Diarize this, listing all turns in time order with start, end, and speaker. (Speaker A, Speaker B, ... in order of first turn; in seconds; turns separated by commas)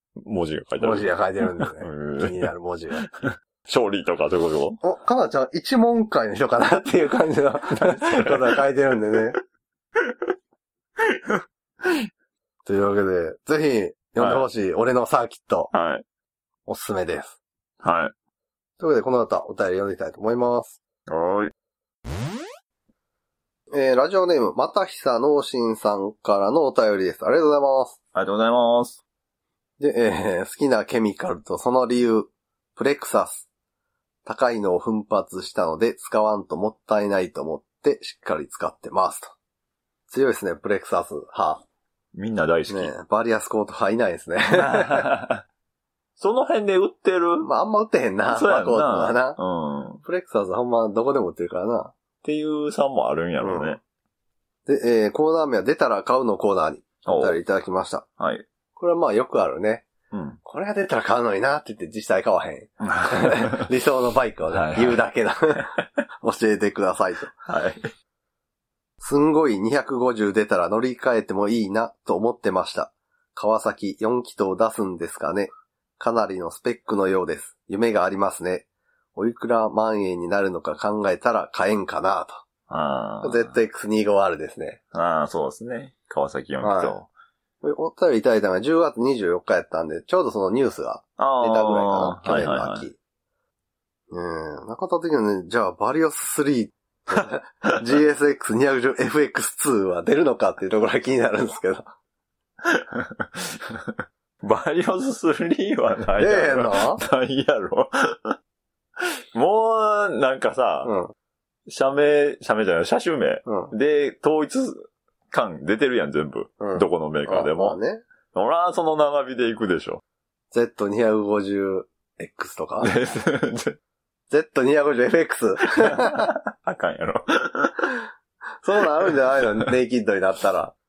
Speaker A: 0.2-4.8, Speaker B: 0.8-3.0, Speaker B: 4.8-9.4, Speaker A: 7.8-8.6, Speaker A: 10.0-10.3, Speaker A: 11.0-12.1, Speaker B: 12.6-15.7, Speaker A: 14.2-14.4, Speaker A: 15.7-16.0, Speaker B: 16.7-17.4, Speaker A: 17.8-18.1, Speaker B: 18.8-20.8, Speaker A: 21.1-21.5, Speaker B: 23.7-28.0, Speaker A: 28.1-29.0, Speaker B: 29.8-33.5, Speaker B: 34.2-39.3, Speaker B: 40.1-41.6, Speaker A: 42.1-42.9, Speaker B: 42.7-45.1, Speaker A: 44.6-45.4, Speaker A: 46.2-47.5, Speaker B: 47.4-49.4, Speaker A: 48.3-50.0, Speaker B: 50.0-51.9, Speaker A: 52.2-53.8, Speaker B: 53.4-53.8, Speaker B: 54.6-58.0, Speaker A: 57.0-57.4, Speaker A: 58.2-58.4, Speaker B: 58.8-59.9, Speaker A: 60.1-60.4, Speaker B: 60.4-67.3, Speaker A: 62.9-63.6, Speaker A: 64.5-65.0, Speaker A: 67.5-67.9, Speaker B: 69.0-82.4, Speaker A: 82.7-83.5, Speaker B: 83.2-84.8, Speaker A: 84.9-87.1, Speaker B: 86.6-87.0, Speaker B: 87.6-93.0, Speaker A: 91.2-92.9, Speaker B: 94.1-101.9, Speaker A: 102.6-108.3, Speaker B: 106.2-107.0, Speaker A: 109.3-110.9, Speaker B: 110.8-111.1, Speaker A: 111.7-117.8, Speaker B: 113.5-113.7, Speaker B: 116.6-118.0, Speaker A: 118.3-120.0, Speaker B: 120.5-122.9, Speaker A: 122.8-123.8, Speaker B: 124.3-126.3, Speaker A: 125.8-127.9, Speaker B: 128.6-130.7